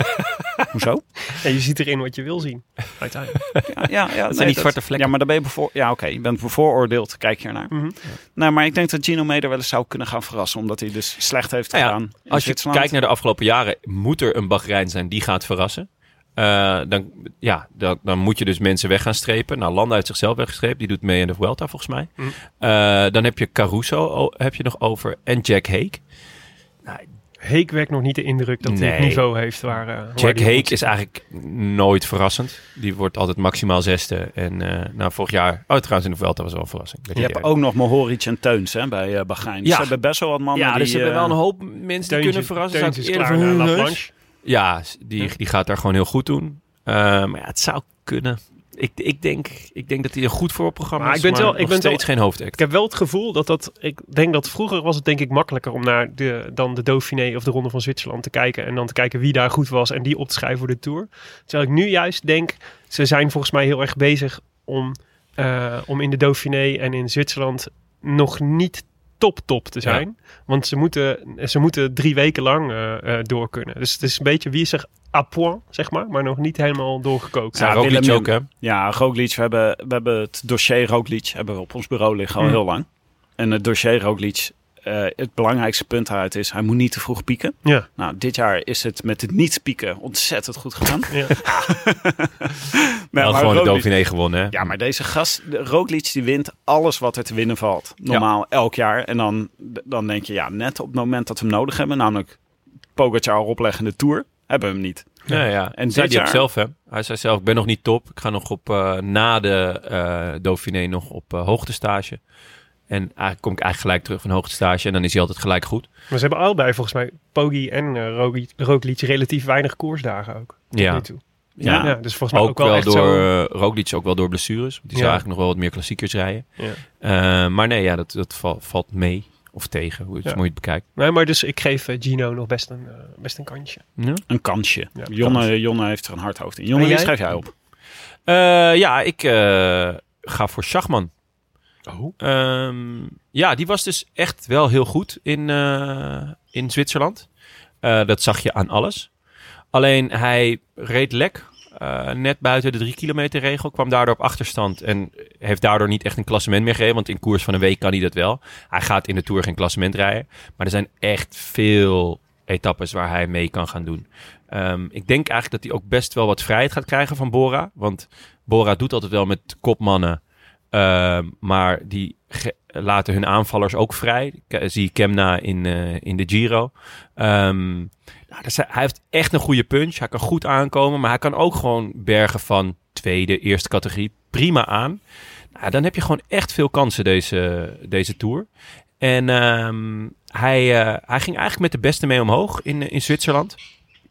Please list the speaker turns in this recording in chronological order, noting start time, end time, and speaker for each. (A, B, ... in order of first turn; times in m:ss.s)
0:00.7-0:01.1 A
0:01.3-0:03.4 B
0:03.5-0:05.1 C
0:03.7-0:12.9 A
0:07.7-0:08.0 B
0:11.7-0:26.0 C
0:27.4-0:30.9 B
0:28.6-0:29.4 C
0:30.2-0:37.4 C
0:37.2-0:41.4 A
0:39.6-0:39.9 C
0:40.5-0:52.6 C
0:42.1-0:44.1 B
0:51.0-1:17.8 B
1:17.6-1:18.5 C
1:17.6-1:22.9 A
1:23.4-1:33.9 A
1:33.2-1:34.7 C
1:34.5-1:42.4 A
1:43.0-1:46.4 A
1:45.3-1:52.2 C
1:52.9-1:55.9 C
1:56.1-2:03.3 B
2:00.7-2:10.8 C
2:01.6-2:02.0 A
2:04.9-2:05.2 B
2:10.2-2:13.8 B
2:14.0-2:14.2 C
2:14.3-2:17.5 A
2:15.0-2:15.4 B
2:16.7-2:17.1 B
2:18.3-2:21.1 C
2:21.9-2:22.1 B
2:22.2-2:27.3 C
2:27.8-2:29.1 C
2:29.7-2:50.2 C
2:50.7-3:05.0 C
3:05.6-3:08.5 C
3:09.0-3:13.6 C